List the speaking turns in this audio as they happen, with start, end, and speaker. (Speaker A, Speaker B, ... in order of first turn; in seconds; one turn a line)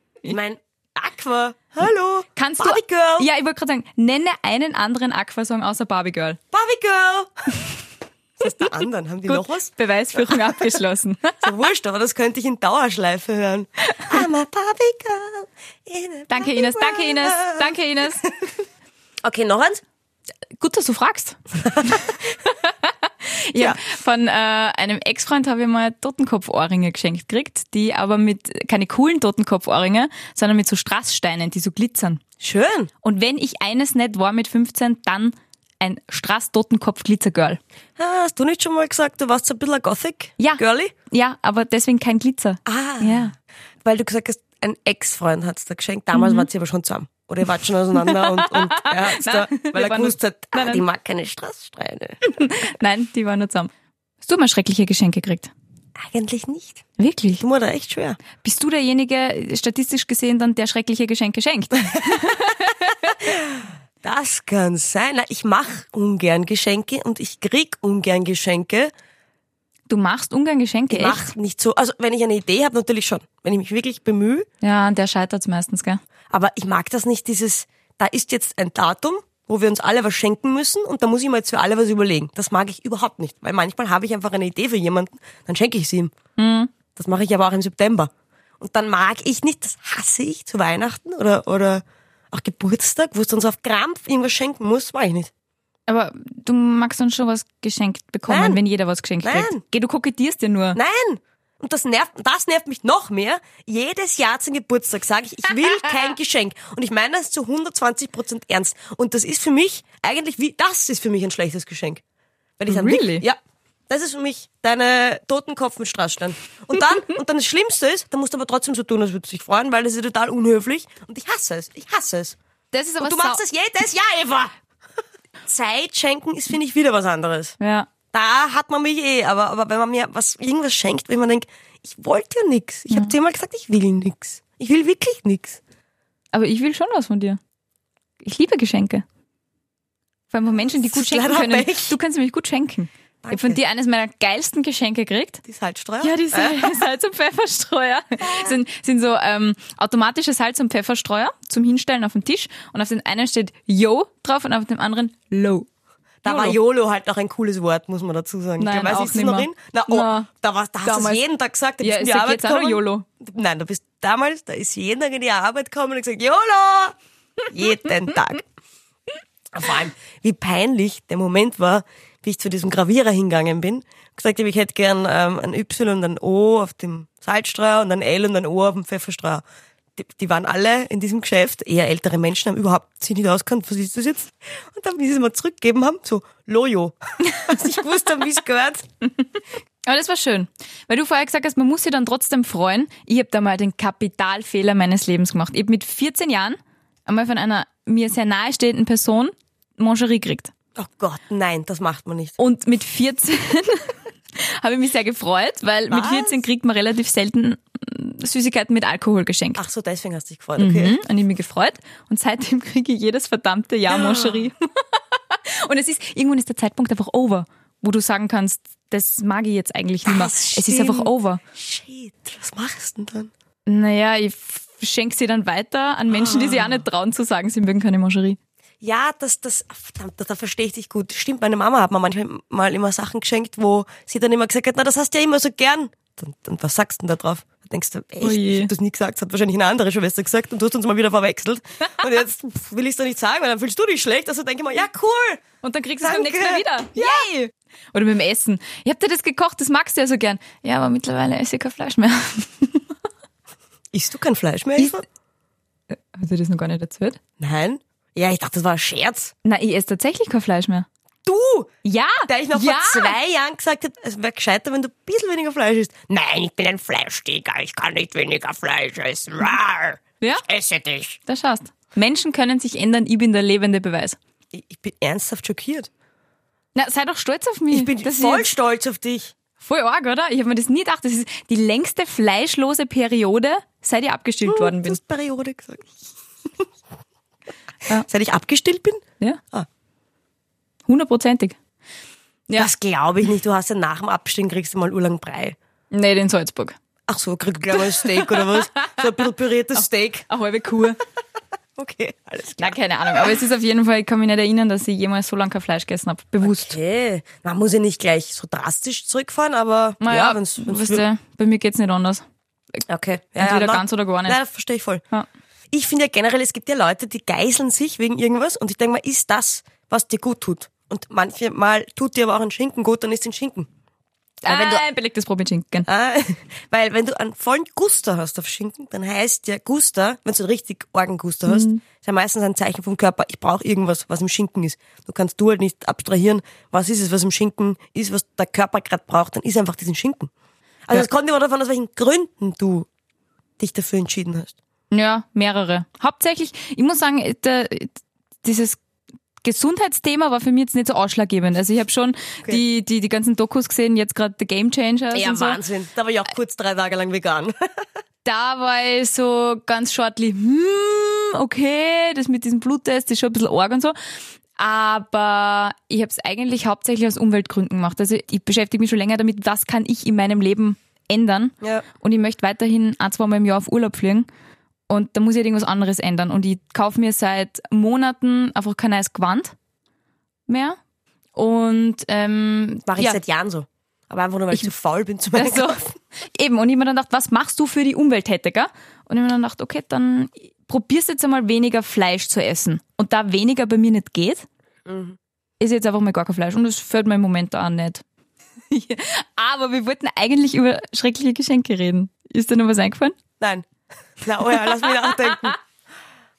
Speaker A: 0.2-3.3
Speaker B: 2.3-6.4
Speaker A: 6.5-7.7
Speaker A: 8.4-10.7
Speaker B: 9.2-11.4
Speaker A: 11.4-18.5
Speaker B: 13.9-14.2
Speaker B: 16.3-18.2
Speaker A: 19.2-19.8
Speaker B: 20.6-32.2
Speaker A: 21.6-22.1
Speaker A: 23.5-23.8
Speaker A: 32.4-32.9
Speaker B: 33.0-37.6
Speaker A: 38.0-40.9
Speaker B: 40.4-43.3
Speaker A: 42.6-43.3
Speaker A: 43.8-52.2
Speaker B: 46.1-46.5
Speaker B: 48.0-50.8
Speaker B: 52.2-55.5
Speaker A: 56.0-56.8
Speaker B: 57.0-57.4
Speaker A: 57.4-58.2
Speaker B: 58.3-63.3
Speaker A: 63.2-68.9
Speaker B: 69.9-71.3
Speaker A: 70.9-74.5
Speaker B: 74.6-76.0
Speaker A: 76.3-86.1
Speaker B: 86.4-86.7
Speaker A: 87.0-95.3
Speaker B: 95.9-100.8
Speaker A: 98.3-98.6
Speaker A: 99.2-99.6
Speaker A: 100.7-112.0
Speaker B: 105.5-106.0
Speaker A: 112.6-113.4
Speaker B: 112.7-113.2
Speaker A: 113.9-122.3
Speaker B: 122.7-123.4
Speaker A: 123.0-124.5
Speaker A: 125.5-127.5
Speaker B: 127.6-127.9
Speaker A: 128.1-135.6
Speaker B: 136.3-137.4
Speaker B: 138.2-139.0
Speaker B: 140.3-145.4
Speaker A: 140.7-141.9
Speaker A: 143.2-143.6
Speaker A: 145.4-146.9
Speaker B: 146.0-155.7
Speaker A: 148.2-148.5
Speaker A: 156.2-166.9
Speaker B: 156.2-156.6
Speaker B: 158.6-160.3
Speaker B: 160.8-161.2
Speaker B: 161.8-163.1
Speaker A: 167.5-168.4
Speaker A: 169.5-179.4
Speaker A: 180.0-188.8
Speaker B: 189.8-200.5
Speaker A: 200.8-202.4
Speaker B: 202.4-209.6
Speaker A: 205.9-206.4
Speaker A: 209.6-211.0
Speaker B: 210.6-221.4
Speaker A: 213.9-214.5
Speaker A: 220.0-223.3
Speaker B: 223.7-228.4
Speaker A: 226.1-226.8
Speaker A: 228.8-245.4
Speaker B: 238.2-238.7
Speaker B: 245.6-252.9
Speaker A: 246.0-247.2
Speaker A: 253.9-255.0
Speaker B: 256.1-257.2
Speaker A: 257.4-259.3
Speaker B: 259.4-260.9
Speaker A: 261.2-261.7
Speaker B: 261.8-263.1
Speaker A: 262.3-271.2
Speaker B: 271.2-274.2
Speaker A: 274.5-275.9
Speaker B: 276.7-278.5
Speaker A: 277.7-279.3
Speaker B: 279.6-285.0
Speaker A: 284.4-285.9
Speaker A: 287.9-289.0
Speaker B: 290.9-291.6
Speaker A: 292.5-295.6
Speaker B: 295.9-296.8
Speaker A: 297.1-300.2
Speaker B: 297.7-299.2
Speaker B: 299.7-301.0
Speaker A: 301.8-303.4
Speaker B: 302.6-306.8
Speaker A: 306.4-311.1
Speaker B: 310.0-312.2
Speaker A: 312.9-315.0
Speaker B: 313.4-314.4
Speaker A: 315.7-323.7
Speaker B: 324.4-325.9
Speaker A: 324.4-324.8
Speaker A: 325.9-340.3
Speaker B: 331.5-331.8
Speaker A: 340.9-342.9
Speaker A: 343.6-344.5
Speaker B: 344.9-348.8
Speaker B: 349.4-355.6
Speaker A: 355.1-357.8
Speaker B: 358.2-363.9
Speaker B: 364.6-374.3
Speaker B: 374.9-379.5
Speaker B: 380.5-380.8
Speaker B: 381.3-383.2
Speaker A: 382.9-385.9
Speaker B: 385.3-394.4
Speaker A: 394.9-395.2
Speaker B: 395.6-398.0
Speaker B: 398.7-403.1
Speaker A: 403.4-403.6
Speaker A: 404.2-405.6
Speaker B: 404.7-405.5